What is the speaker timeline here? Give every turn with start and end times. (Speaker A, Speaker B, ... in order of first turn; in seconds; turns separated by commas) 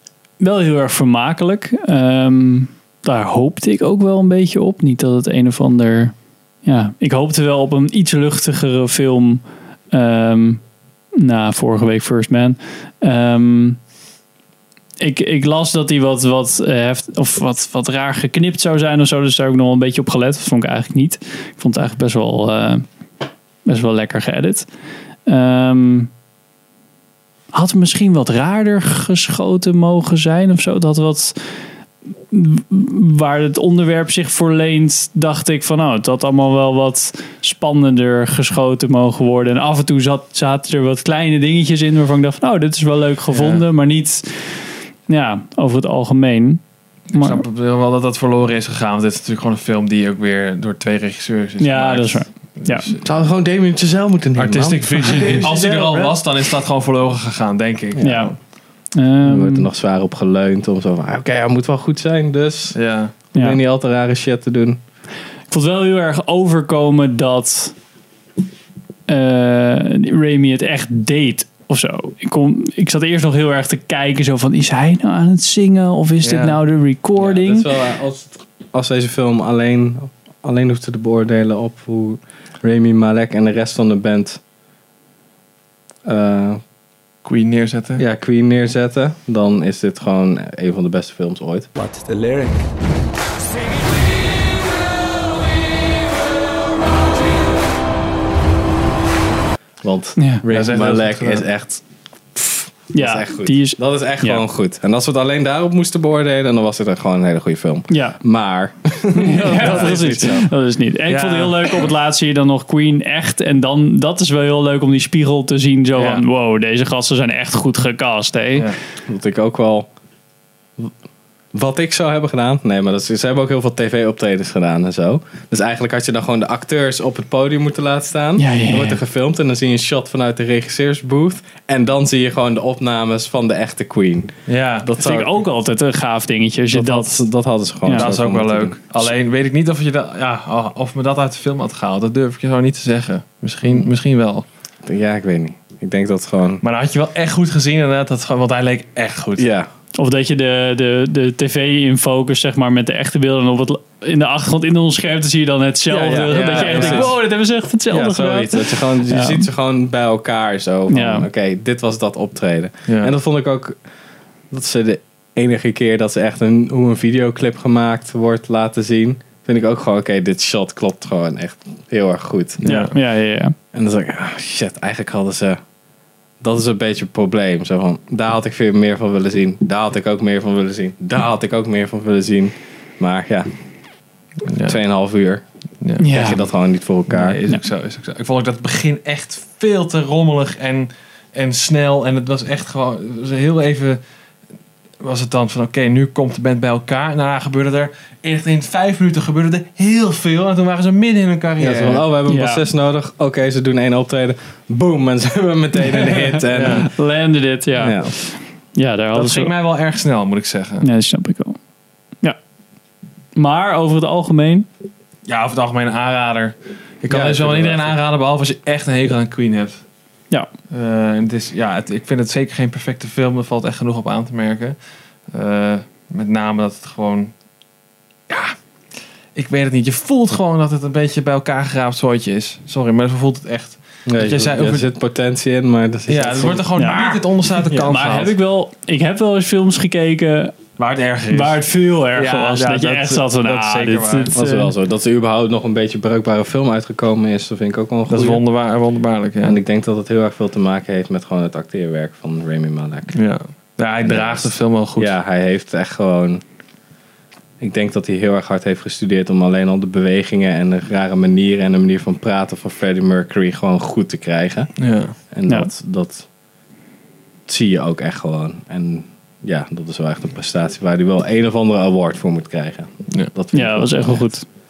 Speaker A: 0.4-10.6, Speaker A: 11.1-13.8, Speaker A: 15.0-22.9, Speaker A: 23.6-24.7, Speaker A: 25.2-26.1, Speaker A: 27.5-31.6, Speaker A: 32.3-47.4, Speaker B: 43.3-43.6, Speaker B: 47.1-53.0, Speaker A: 51.6-52.9, Speaker C: 53.0-55.6, Speaker B: 54.4-58.4, Speaker D: 55.1-56.1, Speaker A: 58.0-58.3, Speaker A: 58.9-59.7, Speaker C: 59.2-62.8, Speaker B: 62.7-63.1, Speaker C: 63.3-64.8, Speaker A: 65.5-67.8, Speaker A: 69.1-77.7, Speaker B: 76.2-76.6, Speaker C: 77.2-84.4, Speaker C: 86.0-86.6, Speaker B: 87.2-88.0, Speaker C: 88.0-91.7, Speaker D: 91.8-92.7, Speaker C: 99.8-101.8, Speaker A: 100.2-100.4, Speaker B: 100.5-101.5, Speaker C: 102.3-110.5, Speaker A: 102.9-104.4, Speaker A: 107.9-108.2, Speaker A: 109.1-118.7, Speaker B: 109.4-110.0, Speaker B: 111.1-111.8, Speaker B: 116.0-116.2, Speaker C: 119.1-119.9, Speaker C: 121.5-135.4, Speaker A: 128.4-129.0, Speaker B: 134.5-134.9, Speaker A: 135.0-137.2, Speaker C: 136.7-139.1, Speaker A: 137.8-138.1, Speaker B: 137.9-144.4, Speaker C: 144.8-146.6, Speaker B: 146.6-149.5, Speaker C: 149.3-149.7, Speaker A: 149.9-159.4, Speaker C: 155.9-157.2, Speaker B: 156.0-157.2, Speaker C: 157.9-163.8, Speaker A: 160.9-161.3, Speaker B: 162.9-163.1, Speaker C: 164.5-172.6, Speaker B: 172.6-172.9, Speaker A: 172.6-173.5, Speaker C: 173.7-175.6, Speaker C: 176.4-183.5, Speaker B: 184.4-184.8, Speaker C: 184.7-185.4, Speaker B: 185.8-186.1, Speaker A: 186.0-186.4, Speaker C: 186.0-187.4, Speaker B: 187.1-194.0, Speaker B: 195.0-202.0, Speaker C: 201.6-206.9, Speaker A: 202.3-202.6, Speaker B: 206.5-206.9, Speaker A: 206.6-209.5, Speaker C: 207.8-208.1, Speaker B: 209.1-210.8, Speaker A: 210.8-211.6, Speaker A: 213.3-214.7, Speaker B: 215.2-219.8, Speaker C: 217.1-218.0, Speaker B: 220.7-224.8, Speaker B: 225.3-227.3, Speaker B: 228.3-228.6, Speaker B: 229.3-234.8, Speaker C: 234.1-237.1, Speaker B: 236.1-238.3, Speaker A: 236.8-237.1, Speaker A: 237.7-240.6, Speaker B: 240.8-244.3, Speaker A: 241.3-244.7, Speaker C: 244.3-248.4, Speaker B: 248.1-249.6, Speaker C: 249.4-253.2, Speaker B: 253.1-255.1, Speaker C: 254.0-256.4, Speaker C: 257.6-264.7, Speaker B: 264.8-265.1, Speaker C: 265.3-266.3, Speaker C: 267.5-274.3, Speaker A: 273.5-274.4